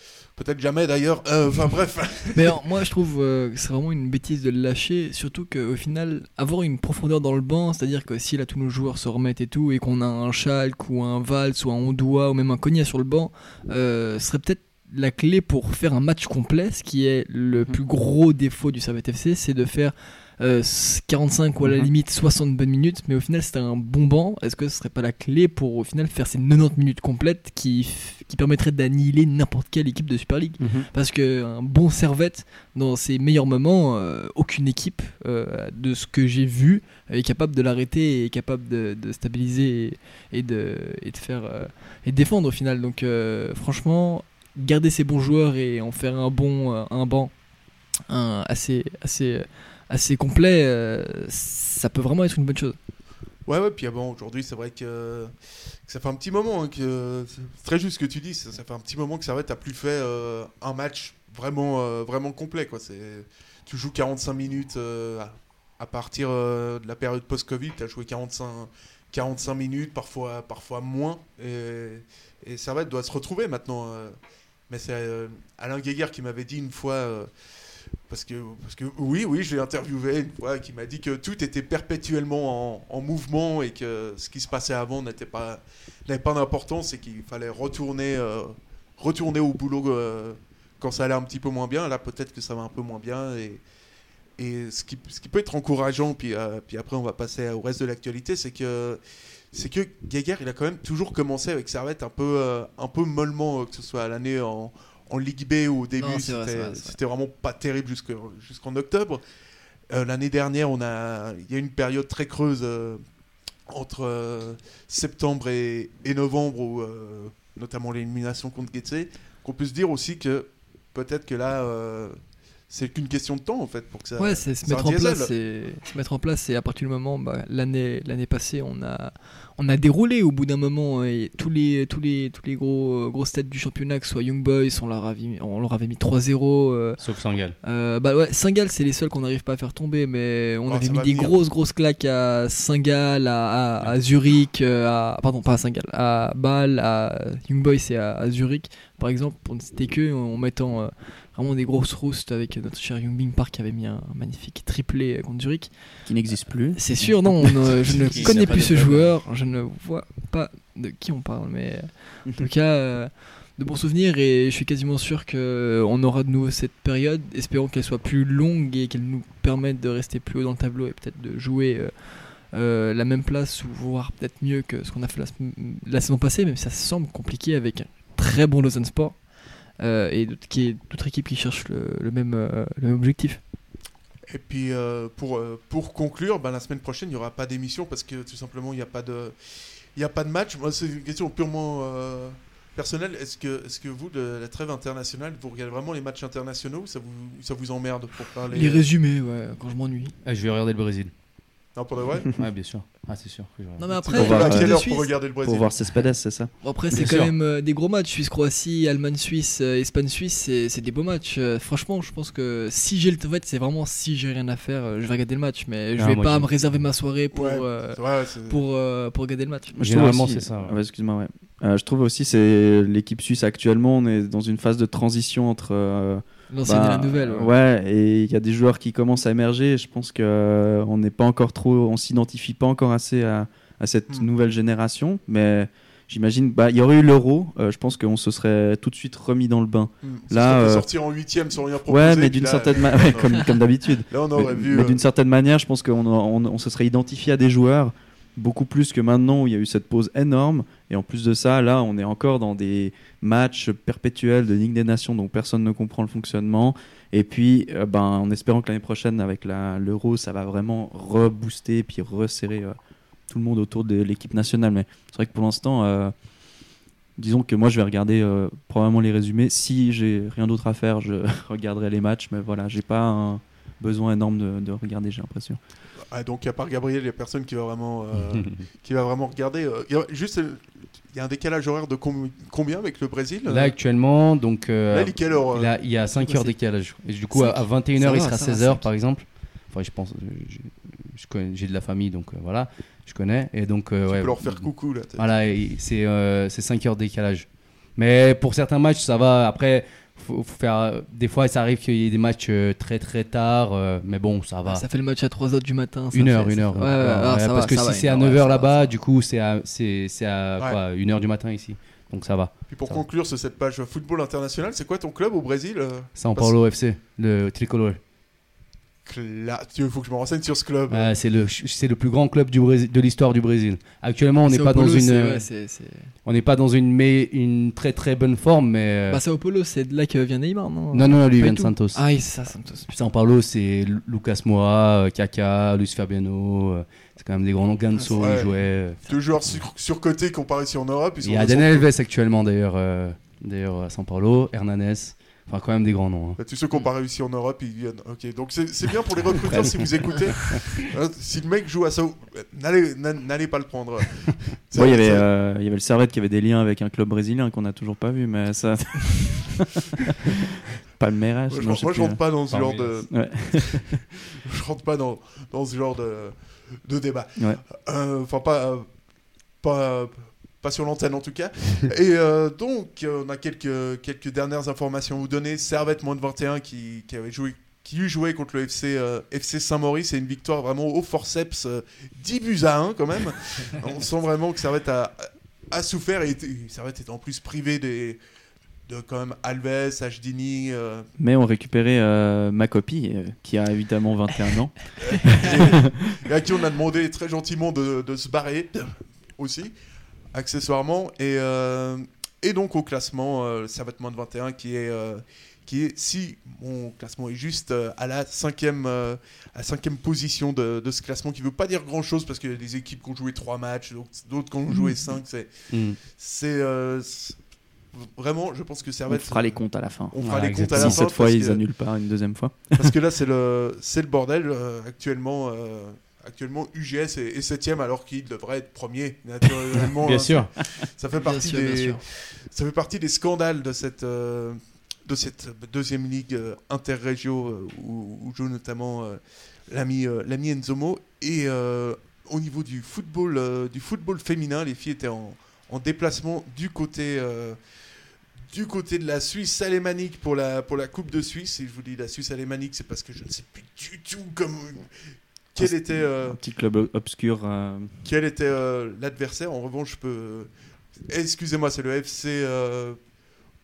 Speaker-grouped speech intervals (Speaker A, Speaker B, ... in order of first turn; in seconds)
Speaker A: 0.3-2.6, 53.5-55.3, 55.9-74.2, 74.7-77.3, 78.1-93.6, 94.4-99.0, 99.5-109.2, 109.9-113.0, 113.7-122.2, 122.7-125.3, 140.7-141.4, 184.3-189.3, 189.9-198.8, 201.7-202.3, 204.0-205.8, 217.3-218.6, 240.0-243.5, 244.1-245.0, 276.1-283.7, 284.9-285.7, 294.1-295.3, 312.7-316.5, 319.1-321.1, 338.0-341.9, 346.4-355.2, 361.5-363.9, 364.4-369.0, 369.6-388.2, 388.9-391.1, 395.1-399.7, 400.3-417.4, 417.9-421.6, 422.7-447.6, 448.5-454.9, 455.5-456.4, 458.0-460.5, 461.1-463.0
Speaker B: 2.3-47.3, 48.1-52.8, 106.0-106.9, 124.2-137.0, 137.6-155.7, 156.7-179.2, 179.8-183.4, 198.5-200.1, 203.8-205.1, 206.6-219.7, 226.5-227.5, 286.1-286.6, 287.3-288.9, 304.7-308.9, 324.4-326.1, 329.1-332.9, 414.7-415.0, 431.2-432.0
Speaker C: 17.5-17.8, 30.6-30.9, 156.1-158.9, 204.1-207.3, 219.7-240.9, 241.9-262.8, 263.3-266.1, 267.2-275.6, 354.7-359.8, 361.0-362.2, 363.1-364.0, 391.2-395.6, 419.1-422.9, 455.6-457.9
Speaker D: 137.0-137.6, 158.1-159.1, 200.2-201.1, 202.4-203.9, 206.9-207.3, 216.0-216.5, 219.8-220.8, 283.5-304.8, 306.1-313.0, 316.1-318.0, 320.9-325.5, 326.2-329.2, 330.9-332.1, 332.9-339.6, 341.2-346.4, 362.5-363.1, 415.7-416.0, 420.2-421.0, 430.0-430.5